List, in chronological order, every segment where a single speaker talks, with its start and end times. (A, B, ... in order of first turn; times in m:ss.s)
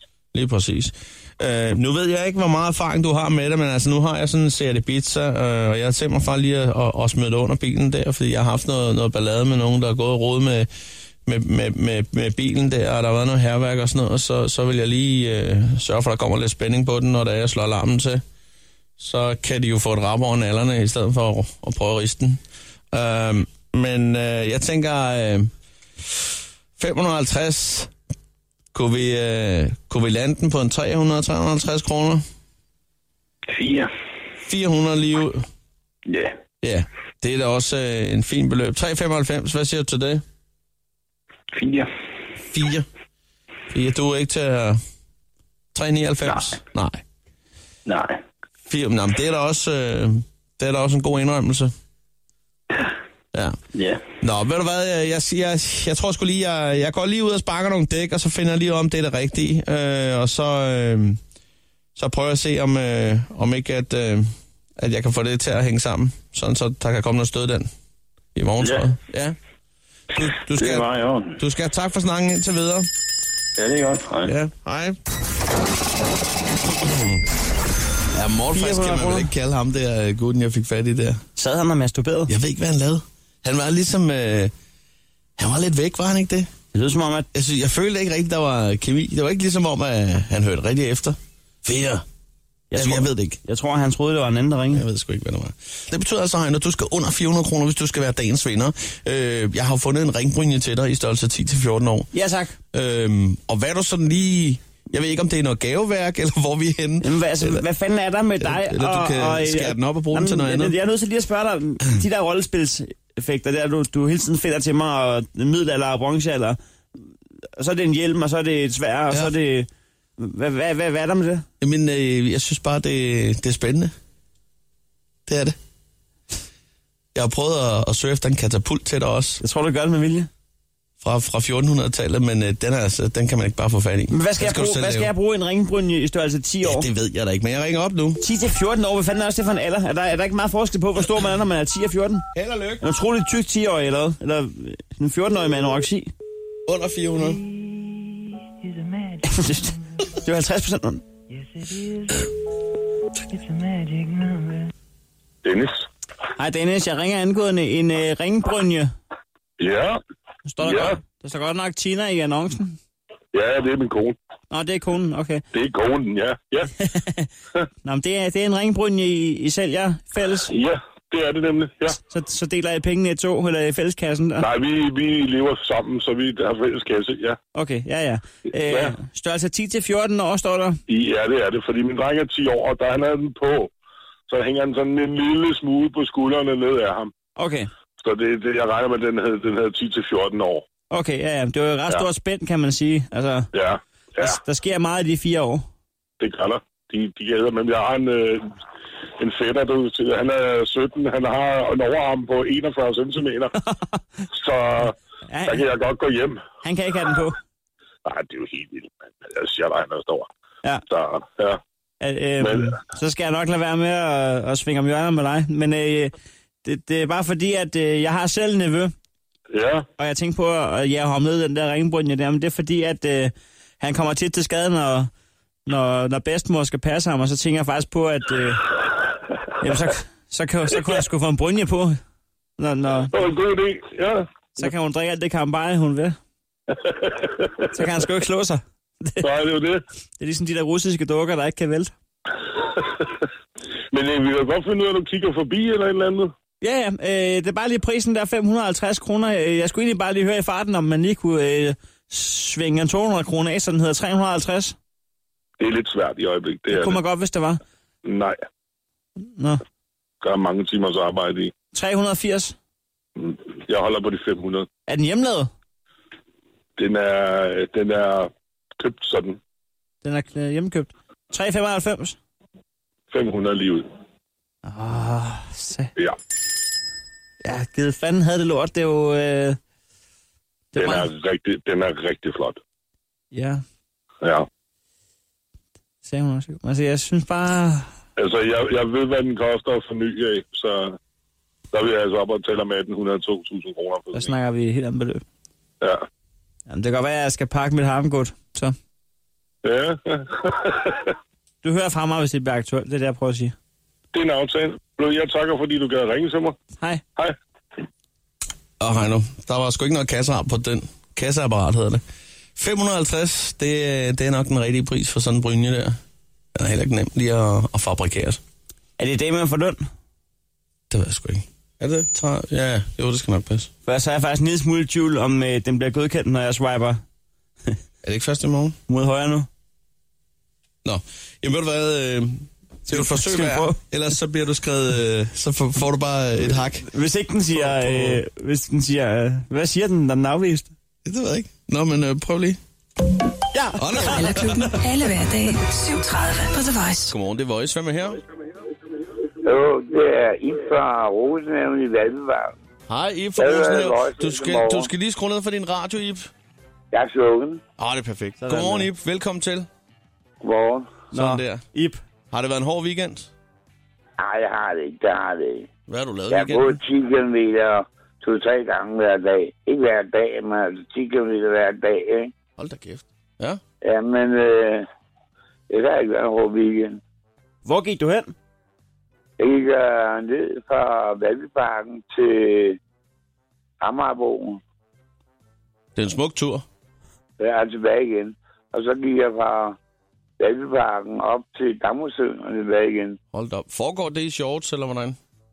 0:00.3-0:10.7 A
0:11.2-0:18.2 A
0:19.0-0:22.4 A
0:22.9-0:27.9 A
0:28.7-0:32.2 A
0:33.5-0:33.9 B
0:34.4-0:35.5 A
0:36.0-0:36.4 B
0:36.6-0:40.2 A
0:41.5-0:41.9 B
0:42.4-0:42.9 A
0:43.7-0:44.8 A
0:45.7-0:47.0 A
0:46.2-0:46.6 B
0:47.8-0:48.2 B
0:48.6-0:51.7 A
0:53.7-0:54.0 B
0:54.2-1:01.2 A
1:02.0-1:07.7 A
1:08.3-1:09.4 A
1:08.6-1:08.9 B
1:10.1-1:10.9 A
1:10.2-1:11.4 B
1:11.4-1:12.9 A
1:13.6-1:14.3 B
1:14.2-1:15.0 A
1:16.7-1:17.2 A
1:18.1-1:21.2 A
1:18.5-1:19.3 C
1:21.4-1:22.3 C
1:22.3-1:24.5 A
1:25.4-1:26.5 A
1:26.7-1:27.3 C
1:27.3-1:32.0 A
1:32.7-1:34.8 C
1:32.7-1:33.4 A
1:34.7-1:42.1 A
1:42.1-1:42.6 C
1:42.7-1:47.6 A
1:47.0-1:56.6 C
1:48.4-1:50.8 A
1:57.6-2:01.4 C
2:01.6-2:03.9 A
2:05.3-2:05.6 A
2:07.1-2:09.4 A
2:09.4-2:10.3 C
2:11.0-2:15.1 A
2:14.1-2:16.9 C
2:16.6-2:18.2 A
2:18.2-2:22.2 C
2:22.3-2:22.8 A
2:22.8-2:26.1 C
2:26.6-2:27.4 A
2:29.2-2:31.0 C
2:35.4-2:35.8 D
2:36.4-2:38.9 C
2:39.6-2:40.0 D
2:40.5-2:42.8 C
2:40.6-2:41.0 D
2:43.3-2:44.2 D
2:44.5-2:45.4 C
2:45.5-2:46.7 D
2:46.8-2:47.3 C
2:47.8-2:50.5 C
2:50.4-2:52.0 D
2:52.1-2:54.5 C
2:54.4-2:57.4 D
2:57.5-3:00.8 C
2:58.6-2:59.0 D
3:00.9-3:03.7 D
3:04.3-3:07.1 D
3:07.4-3:07.7 C
3:08.0-3:10.6 D
3:10.9-3:13.5 C
3:13.5-3:14.4 D
3:14.2-3:15.6 C
3:16.2-3:18.5 D
3:19.2-3:23.6 D
3:24.3-3:26.4 D
3:25.3-3:25.6 C
3:26.6-3:27.4 C
3:28.0-3:30.3 D
3:30.9-3:31.6 D
3:32.0-3:36.1 C
3:32.4-3:32.8 D
3:36.6-3:38.9 C
3:39.5-3:39.8 D
3:40.0-3:45.1 C
3:45.7-3:48.7 C
3:49.6-3:52.0 C
3:52.6-3:53.1 C
3:53.1-3:54.7 D
3:54.6-3:56.2 C
3:56.7-3:57.6 D
3:57.7-3:59.3 C
3:59.2-3:59.8 D
4:00.2-4:01.9 C
4:02.8-4:03.1 D
4:03.9-4:06.3 D
4:06.6-4:14.8 C
4:15.6-4:17.0 D
4:16.7-4:17.6 C
4:18.0-4:18.4 D
4:20.2-4:21.5 D
4:21.7-4:22.6 C
4:23.2-4:24.7 D
4:24.9-4:25.5 C
4:26.8-4:29.4 D
4:30.0-4:32.2 C
4:33.1-4:33.9 D
4:34.6-4:35.9 C
4:37.4-4:39.6 C
4:40.7-4:41.1 C
4:40.7-4:42.6 D
4:43.3-4:43.6 C
4:44.2-4:44.5 D
4:46.0-4:47.9 C
4:48.2-4:51.0 D
4:51.7-4:54.3 D
4:54.1-4:55.2 C
4:56.7-4:58.8 C
4:59.6-5:01.1 D
5:01.6-5:03.5 C
5:04.1-5:06.6 D
5:08.8-5:12.0 A
5:12.6-5:16.0 A
5:16.5-5:18.4 A
5:19.0-5:19.8 C
5:20.9-5:23.7 A
5:23.8-5:27.0 C
5:28.0-5:28.8 A
5:28.9-5:29.5 C
5:30.8-5:36.9 A
5:32.9-5:33.8 C
5:36.9-5:40.7 C
5:37.5-5:38.2 A
5:41.0-5:42.6 A
5:43.5-5:44.2 C
5:43.8-5:44.5 A
5:44.1-5:47.1 E
5:47.1-5:48.2 A
5:49.4-5:52.5 F
5:52.9-5:56.3 A
5:53.4-5:54.9 F
5:56.9-5:57.6 F
5:57.8-5:59.7 A
5:58.4-5:58.9 C
6:00.4-6:01.1 F
6:01.1-6:02.0 C
6:01.1-6:01.6 A
6:02.3-6:03.3 A
6:04.2-6:05.7 F
6:05.9-6:06.8 A
6:06.3-6:12.3 F
6:12.6-6:13.6 A
6:13.8-6:14.8 F
6:15.7-6:17.0 F
6:17.6-6:18.3 C
6:19.4-6:22.8 F
6:23.8-6:24.6 F
6:26.0-6:26.6 A
6:27.4-6:29.8 F
6:30.4-6:33.2 F
6:33.3-6:35.2 A